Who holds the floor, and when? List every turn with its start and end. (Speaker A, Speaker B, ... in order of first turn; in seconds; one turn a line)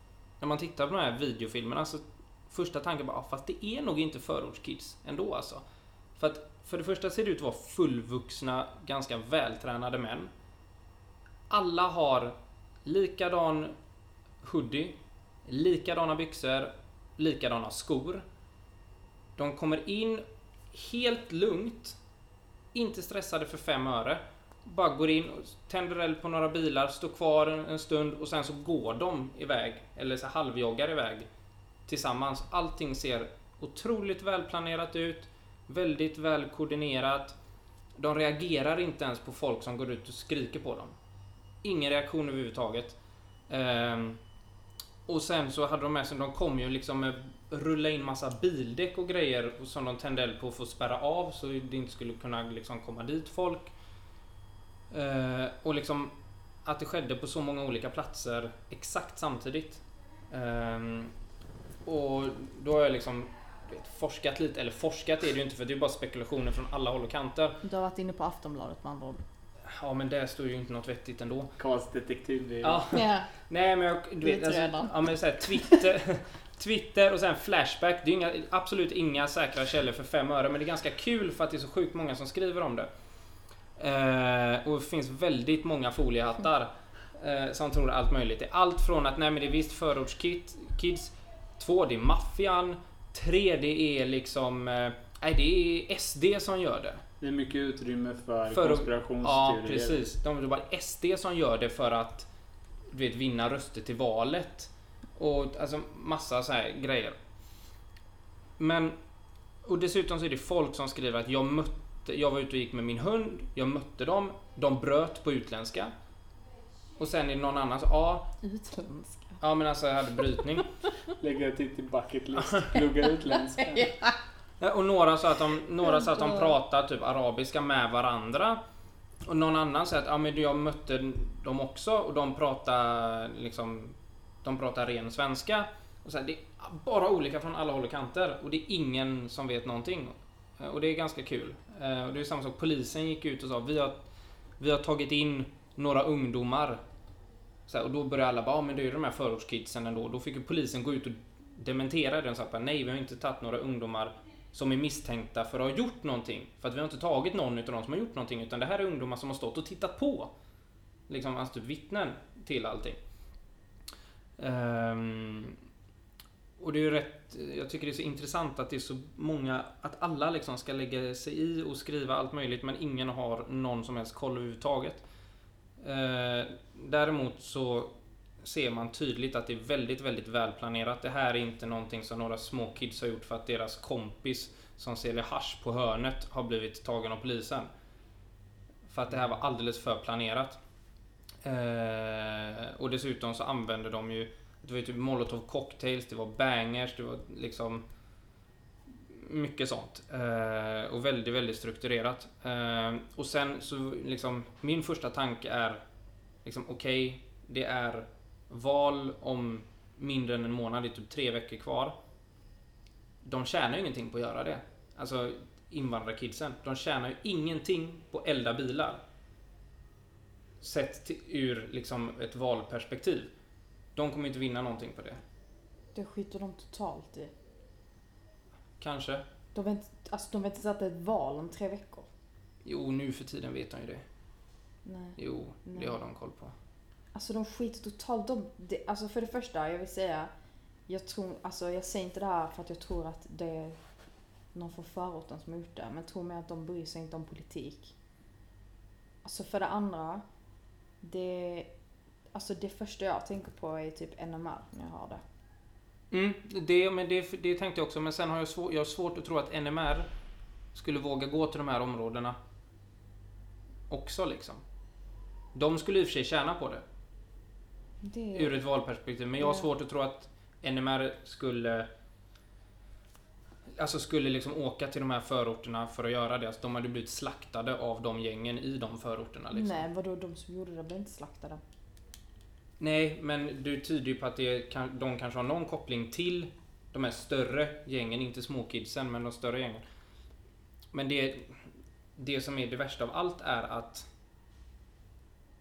Speaker A: 0.4-5.6
Speaker A: 6.2-10.3
Speaker A: 11.5-13.7
Speaker A: 14.4-18.2
Speaker A: 19.4-22.0
Speaker A: 22.7-31.3
Speaker A: 31.9-37.4
Speaker A: 38.0-40.9
Speaker A: 41.6-43.0
Speaker A: 43.5-44.2
Speaker A: 45.1-53.7
Speaker A: 54.9-56.1
Speaker A: 56.6-61.1
Speaker A: 61.9-67.6
Speaker B: 67.6-69.2
Speaker A: 69.7-71.5
Speaker C: 71.6-72.9
Speaker A: 72.6-82.9
Speaker B: 72.9-73.3
Speaker B: 74.2-75.8
Speaker A: 83.8-97.0
Speaker C: 97.2-100.1
Speaker A: 98.5-102.3
Speaker A: 102.9-107.2
Speaker A: 108.6-109.0
Speaker A: 109.6-115.9
Speaker A: 117.0-118.3
Speaker B: 118.4-119.4
Speaker A: 119.4-120.7
Speaker C: 121.2-123.9
Speaker B: 123.2-124.2
Speaker A: 124.6-128.6
Speaker B: 125.8-126.5
Speaker A: 129.2-144.1
Speaker A: 144.6-146.8
Speaker A: 147.7-160.3
Speaker A: 161.1-163.0
Speaker A: 164.4-165.6
Speaker A: 166.6-175.0
Speaker A: 175.8-187.7
Speaker A: 188.9-190.6
Speaker A: 191.4-197.8
Speaker A: 199.1-205.8
Speaker A: 206.4-211.9
Speaker A: 213.2-219.0
Speaker A: 220.6-223.3
Speaker A: 223.9-225.2
Speaker B: 225.9-227.3
Speaker A: 228.8-229.2
Speaker B: 229.5-232.1
Speaker A: 232.6-234.0
Speaker B: 234.8-236.0
Speaker A: 235.2-236.5
Speaker B: 237.1-240.3
Speaker B: 240.9-243.8
Speaker B: 244.5-247.9
Speaker B: 249.2-250.2
Speaker B: 251.0-251.7
Speaker B: 252.3-255.2
Speaker A: 256.1-260.1
Speaker A: 260.7-262.4
Speaker A: 263.9-264.6
Speaker A: 265.5-266.8
Speaker B: 268.0-268.6
Speaker A: 268.3-271.9
Speaker B: 269.4-269.7
Speaker A: 273.8-279.9
Speaker B: 279.5-281.6
Speaker A: 282.8-289.8
Speaker A: 290.9-291.6
Speaker A: 292.2-294.1